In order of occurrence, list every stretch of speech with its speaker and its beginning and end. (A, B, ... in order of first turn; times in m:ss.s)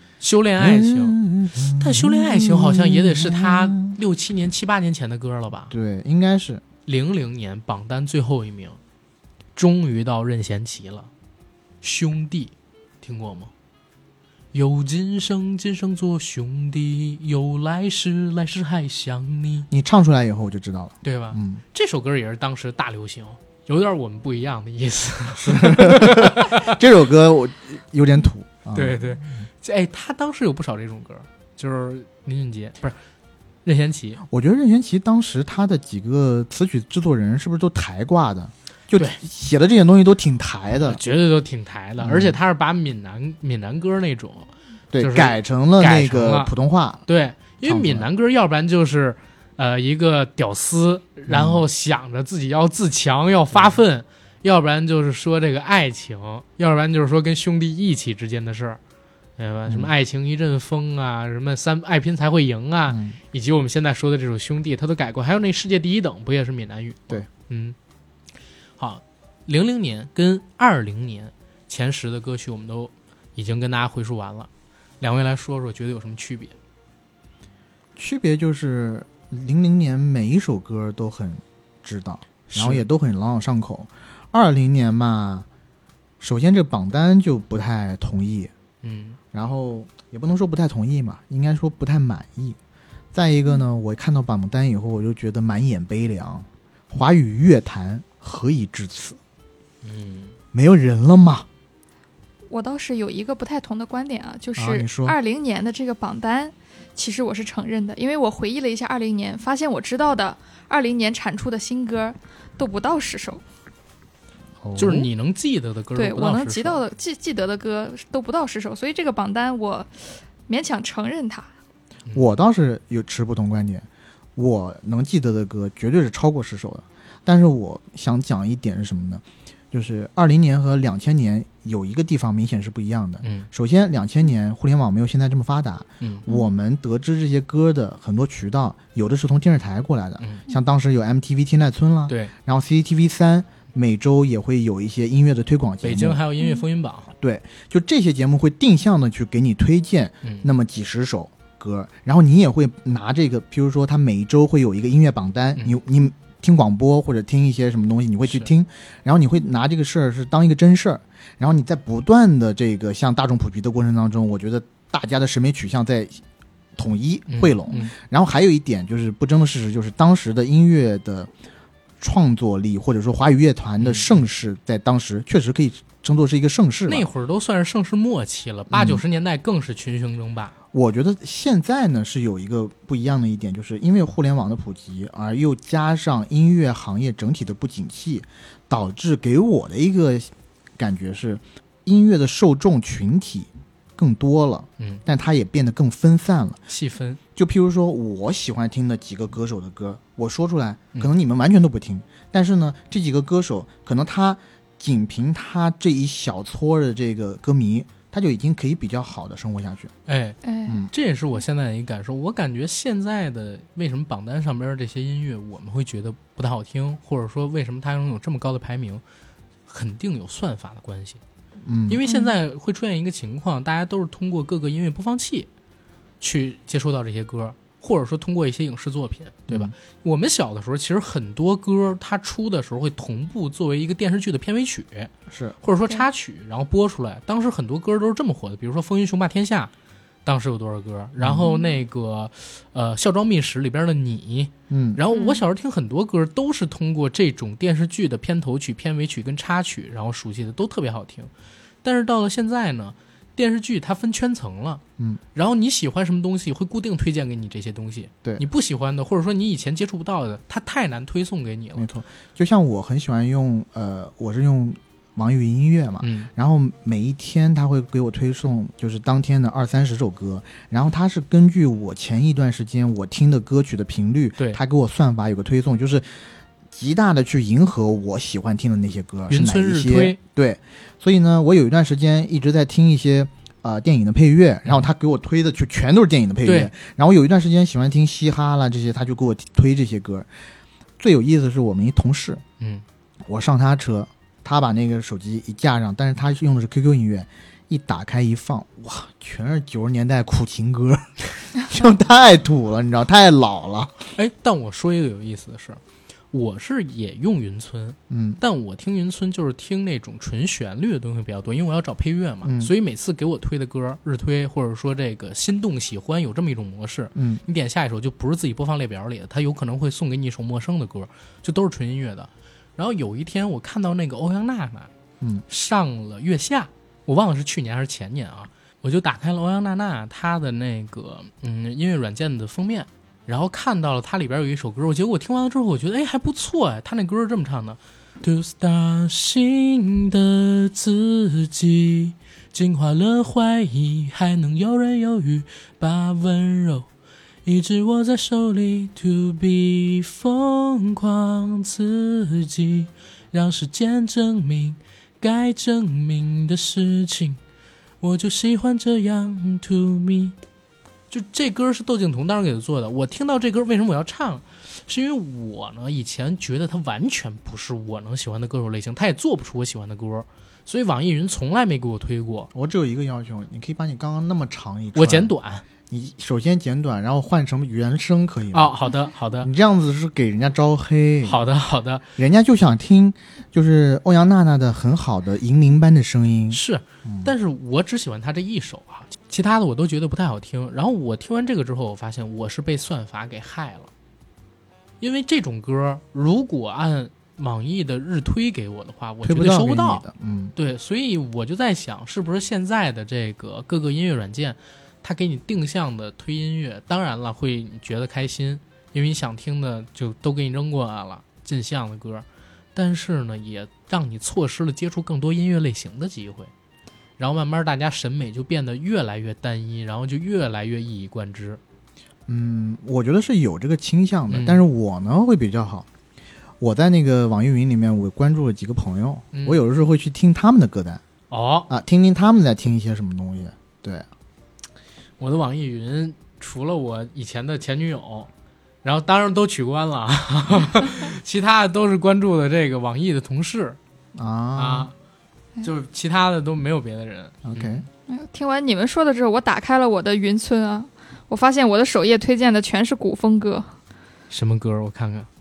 0:00.2-0:05.7 A
0:00.6-0:04.0 B
0:05.7-0:06.6 B
0:06.9-0:08.8 A
0:09.6-0:11.1 A
0:11.8-0:13.5 A
0:14.5-0:19.7 A
0:19.7-0:21.6 B
0:21.0-0:26.8 A
0:25.4-0:29.4 B
0:28.7-0:33.0 A
0:33.6-0:34.2 A
0:34.2-0:41.0 B
0:39.0-0:39.2 A
0:40.8-0:46.5 A
0:42.0-0:42.4 B
0:44.9-0:47.0 B
0:47.1-0:58.8 A
0:47.6-0:48.1 B
0:51.3-0:51.6 B
0:53.5-0:53.8 B
0:59.4-1:07.8 A
1:02.9-1:03.2 B
1:08.8-1:14.5 A
1:15.0-1:16.6 A
1:18.0-1:25.5 B
1:22.5-1:22.8 A
1:26.2-1:28.5 B
1:28.8-1:29.2 A
1:29.3-1:32.6 B
1:33.1-1:39.2 B
1:39.8-1:40.4 A
1:40.5-1:41.5 B
1:42.5-1:53.4 C
1:44.6-1:45.2 B
1:54.6-1:55.1 B
1:54.8-1:56.8 A
1:56.0-2:01.5 C
2:02.1-2:26.2 B
2:13.2-2:13.5 A
2:16.0-2:16.3 A
2:22.1-2:22.3 A
2:25.8-2:27.1 A
2:27.2-2:46.2 B
2:30.2-2:30.5 A
2:46.8-2:51.3 B
2:47.3-2:47.9 A
2:52.0-2:57.1 B
2:53.8-2:54.2 A
2:56.9-3:00.5 A
2:58.7-2:59.0 B
3:00.7-3:16.6 B
3:16.7-3:17.2 A
3:17.4-3:29.9 B
3:30.1-3:30.4 A
3:30.4-3:30.8 C
3:30.7-3:30.9 B
3:30.9-3:39.0 A
3:39.7-3:41.2 A
3:41.6-3:42.0 B
3:41.9-3:45.5 A
3:42.1-3:42.3 C
3:46.2-3:59.7 A
3:49.5-3:49.7 B
3:55.3-3:55.6 B
4:00.2-4:11.3 A
4:01.2-4:01.5 B
4:04.7-4:05.0 B
4:05.1-4:05.4 C
4:11.8-4:14.8 A
4:15.4-4:21.9 A
4:21.8-4:36.1 B
4:26.0-4:26.3 A
4:36.7-4:50.3 B
4:39.3-4:40.2 A
4:46.4-4:46.7 A
4:51.0-4:52.4 B
4:53.3-5:04.0 B
5:04.2-5:05.8 A
5:06.3-5:24.9 A
5:08.1-5:08.4 B
5:12.4-5:12.7 B
5:17.2-5:17.4 B
5:25.5-5:46.9 A
5:47.5-5:57.4 A
5:58.0-6:00.4 A
6:01.1-6:12.5 A
6:12.5-6:15.3 B
6:15.0-6:15.6 A
6:15.9-6:18.7 B
6:18.5-6:19.5 A
6:19.4-6:21.4 B
6:21.2-6:22.0 A
6:22.2-6:27.3 B
6:26.5-6:33.9 A
6:35.0-6:40.0 A
6:39.2-6:40.6 B
6:40.6-6:56.5 A
6:57.2-7:01.6 A
7:02.3-7:05.9 B
7:04.3-7:04.6 A
7:06.6-7:11.0 B
7:09.3-7:09.6 A
7:11.3-7:11.7 A
7:11.7-7:14.1 B
7:15.2-7:18.3 A
7:18.8-7:23.8 A
7:24.2-7:24.9 B
7:24.6-7:24.9 A
7:25.6-7:27.8 A
7:27.4-7:27.8 B
7:28.1-7:33.7 C
7:34.3-7:35.3 A